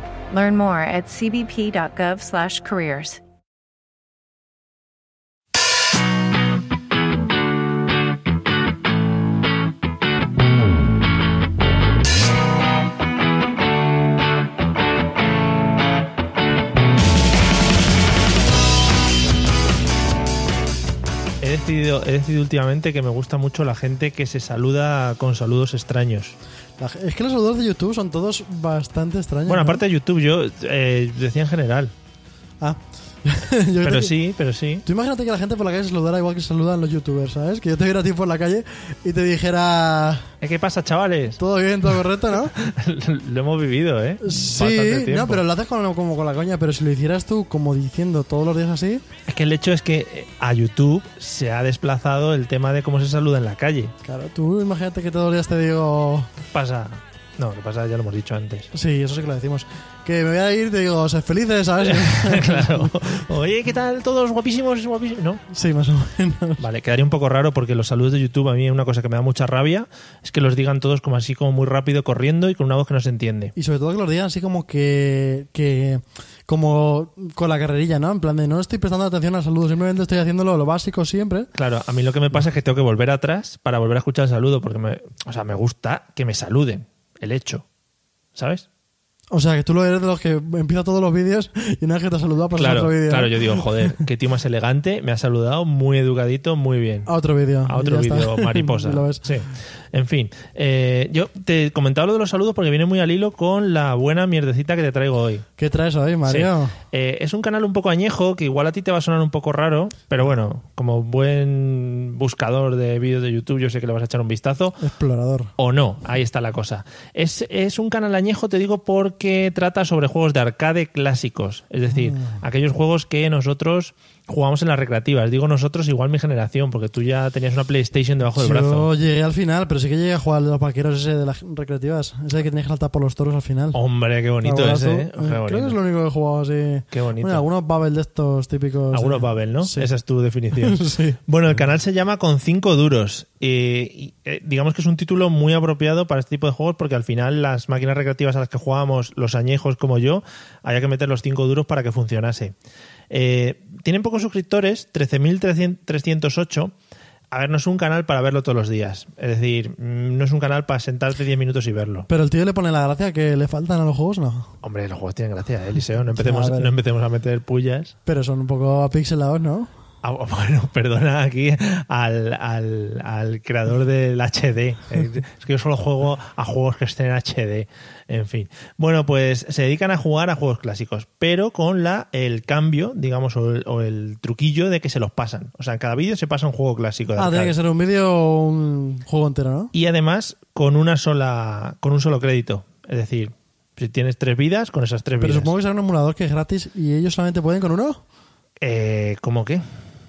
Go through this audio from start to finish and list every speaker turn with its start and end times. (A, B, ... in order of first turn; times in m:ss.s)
0:00.3-0:03.2 A
0:21.4-0:26.4 B
0:26.8-0:29.8 C
0:29.5-0:31.9 B
0:32.6-0:34.1 C
0:33.8-0:34.8 B
0:34.8-0:40.3 C
0:40.4-0:41.4 B
0:41.4-0:42.5 C
0:41.9-0:45.4 B
0:44.2-0:49.0 C
0:49.3-0:53.9 B
0:54.0-0:56.3 C
0:56.5-0:58.7 B
0:58.7-1:02.9 C
1:01.8-1:05.4 B
1:05.5-1:06.6 C
1:06.6-1:13.5 B
1:13.6-1:21.5 C
1:21.5-1:27.6 B
1:28.3-1:28.6 B
1:29.3-1:33.9 C
1:32.6-1:37.1 B
1:37.0-1:39.2 C
1:37.7-1:45.4 B
1:45.6-1:46.8 C
1:46.3-1:54.8 B
1:54.8-1:55.5 C
1:55.6-2:08.9 B
2:02.0-2:02.4 C
2:08.4-2:13.8 C
2:13.7-2:15.8 B
2:14.4-2:19.9 C
2:16.9-2:17.4 B
2:18.9-2:32.5 B
2:20.6-2:21.2 C
2:33.1-2:36.7 B
2:37.3-2:42.1 B
2:42.1-2:44.5 C
2:44.6-2:47.9 B
2:46.1-2:46.8 C
2:48.0-2:49.7 C
2:50.0-3:07.5 B
3:07.2-3:09.7 C
3:09.7-3:15.5 B
3:15.2-3:18.0 C
3:18.6-3:19.6 B